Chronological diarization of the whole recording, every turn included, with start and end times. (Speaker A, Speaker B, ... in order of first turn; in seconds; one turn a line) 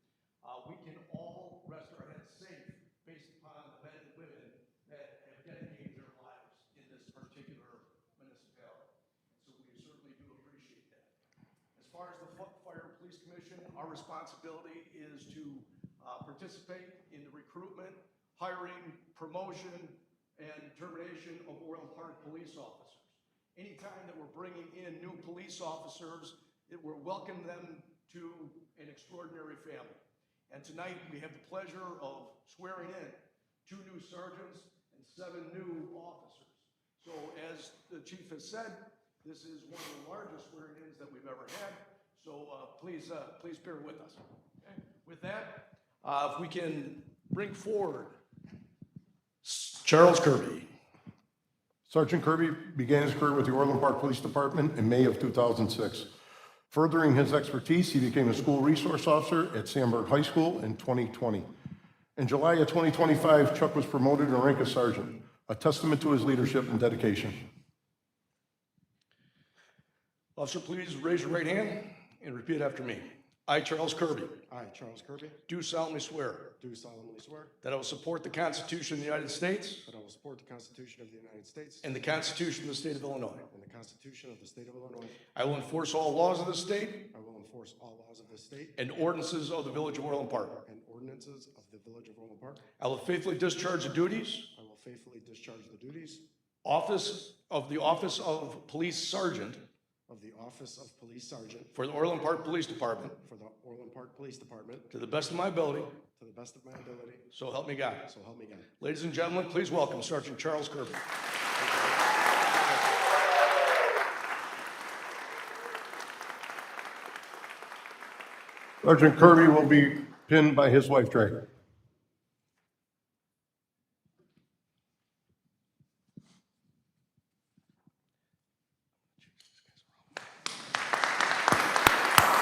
Speaker A: 0.4-11.1
Speaker A: 11.8-48.2
Speaker A: 49.4-50.7
Speaker B: 51.9-56.1
Speaker B: 56.7-61.5
Speaker B: 62.2-67.4
Speaker A: 70.4-74.4
Speaker C: 74.5-75.4
Speaker A: 75.5-76.5
Speaker C: 76.6-77.5
Speaker A: 77.6-79.9
Speaker C: 79.8-82.3
Speaker A: 81.8-83.5
Speaker C: 83.5-85.2
Speaker A: 85.3-87.1
Speaker C: 87.1-88.8
Speaker A: 88.8-90.6
Speaker C: 90.7-92.6
Speaker A: 92.8-94.5
Speaker C: 94.5-96.3
Speaker A: 96.6-99.7
Speaker C: 100.1-101.7
Speaker A: 101.7-103.2
Speaker C: 103.2-104.9
Speaker A: 104.9-106.0
Speaker C: 106.1-107.3
Speaker A: 107.3-108.1
Speaker C: 108.0-108.7
Speaker A: 108.8-111.0
Speaker C: 111.6-112.0
Speaker B: 118.8-121.4
Speaker A: 129.2-130.0